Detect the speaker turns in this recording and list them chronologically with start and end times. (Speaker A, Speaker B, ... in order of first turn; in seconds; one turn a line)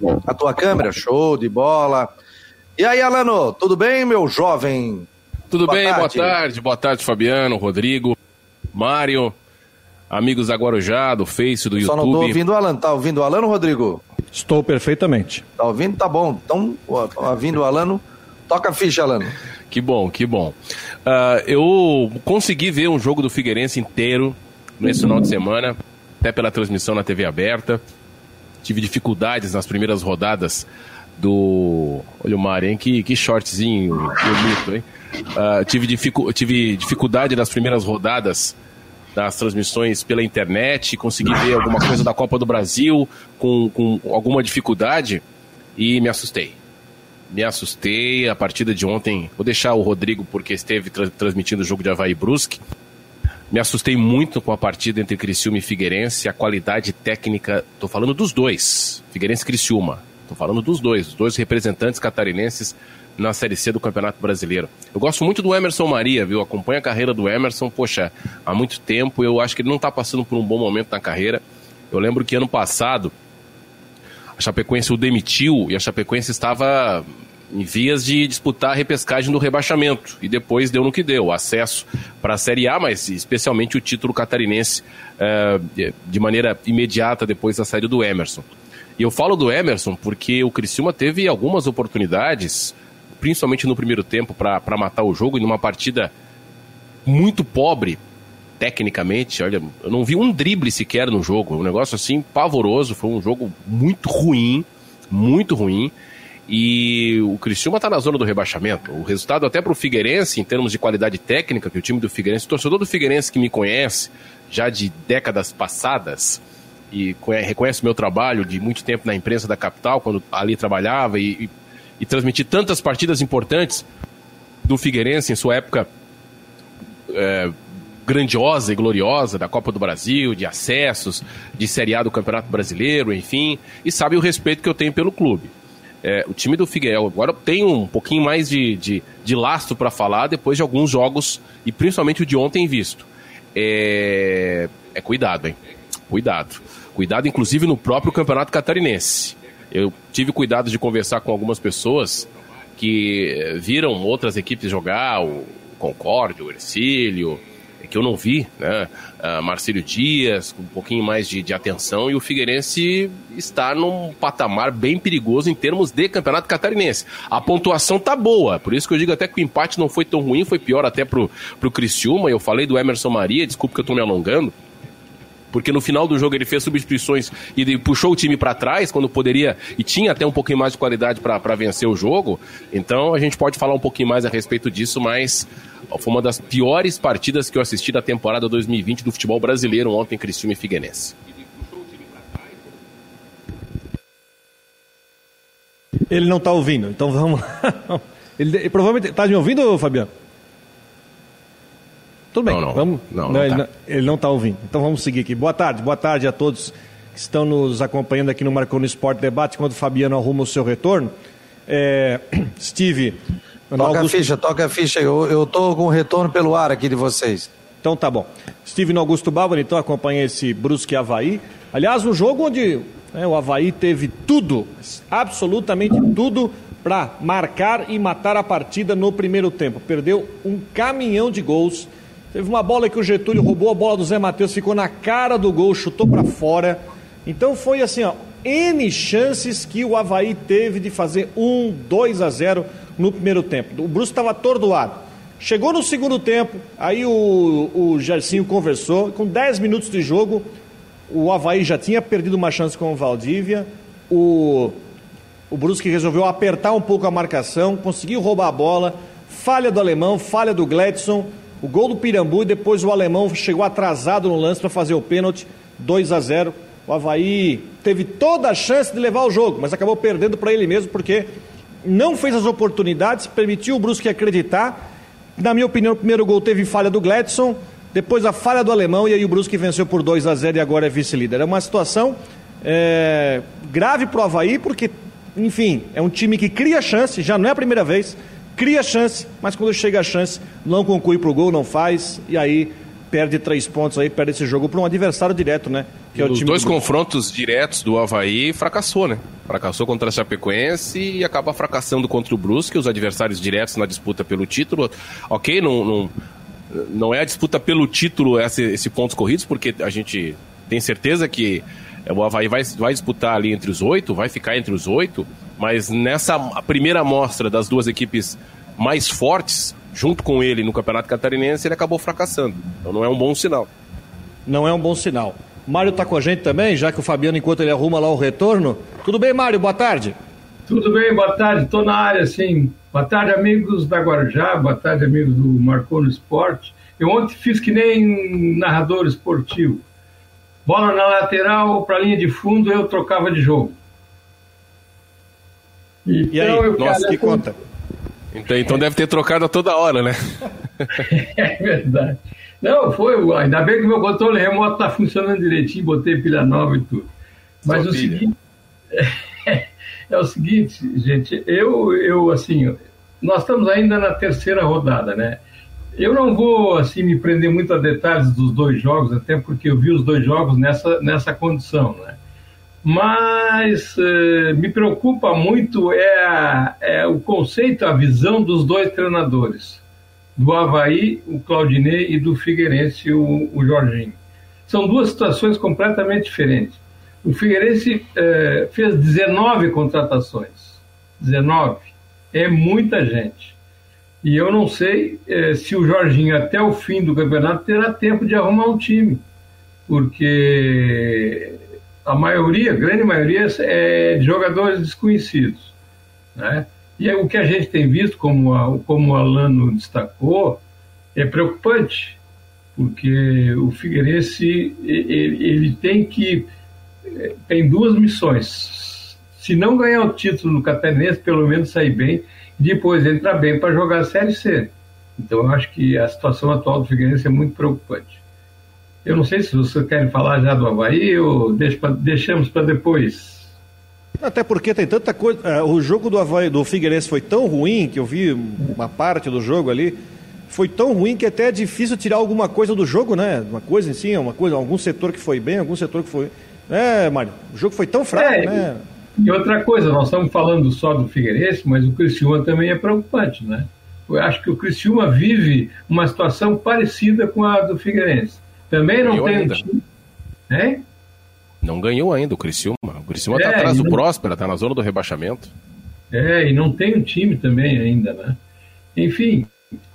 Speaker A: 0.2-2.1
Speaker A: 2.8-5.1
Speaker B: 5.5-8.2
Speaker A: 5.7-6.4
Speaker B: 8.7-9.3
Speaker B: 10.1-12.4
Speaker A: 11.8-14.0
Speaker C: 14.3-15.4
Speaker A: 15.6-19.3
Speaker B: 19.7-20.6
Speaker B: 21.1-27.8
Speaker B: 28.6-30.7
Speaker B: 31.2-38.5
Speaker B: 39.1-45.2
Speaker B: 45.8-46.6
Speaker B: 47.3-52.6
Speaker B: 53.5-73.1
Speaker B: 74.4-88.5
Speaker B: 89.0-96.1
Speaker B: 97.1-98.0
Speaker B: 98.6-105.9
Speaker B: 106.5-123.8
Speaker B: 124.6-125.9
Speaker B: 127.1-127.5
Speaker B: 128.1-135.5
Speaker B: 136.0-145.6
Speaker B: 146.1-174.5
Speaker B: 175.5-191.2
Speaker C: 196.1-200.1
Speaker C: 202.3-211.1
Speaker B: 202.5-203.6
Speaker C: 211.7-214.3
Speaker A: 213.8-217.5
Speaker C: 217.8-250.4
Speaker C: 251.1-254.8
Speaker C: 255.5-271.3
Speaker C: 271.8-274.8
Speaker C: 275.4-296.8
Speaker B: 296.2-306.1
Speaker B: 306.7-323.7
Speaker C: 324.5-330.2
Speaker D: 330.7-339.8
Speaker D: 340.6-343.8
Speaker D: 346.1-347.4
Speaker C: 346.3-347.6
Speaker B: 348.3-351.1
Speaker D: 351.1-357.1
Speaker B: 357.6-358.3
Speaker D: 357.7-358.3
Speaker D: 358.9-365.4
Speaker D: 365.9-372.2
Speaker D: 372.8-379.8
Speaker D: 380.4-393.6
Speaker D: 394.2-399.2
Speaker D: 399.9-405.7
Speaker D: 406.4-410.6
Speaker D: 411.1-412.2
Speaker D: 412.8-416.5
Speaker D: 417.1-428.2
Speaker D: 429.0-433.5
Speaker C: 434.2-448.8
Speaker D: 448.1-448.6
Speaker D: 449.2-459.8
Speaker B: 459.0-459.6
Speaker D: 460.5-460.9
Speaker B: 461.6-465.5
Speaker D: 463.3-464.0
Speaker D: 466.1-468.4
Speaker D: 468.9-469.5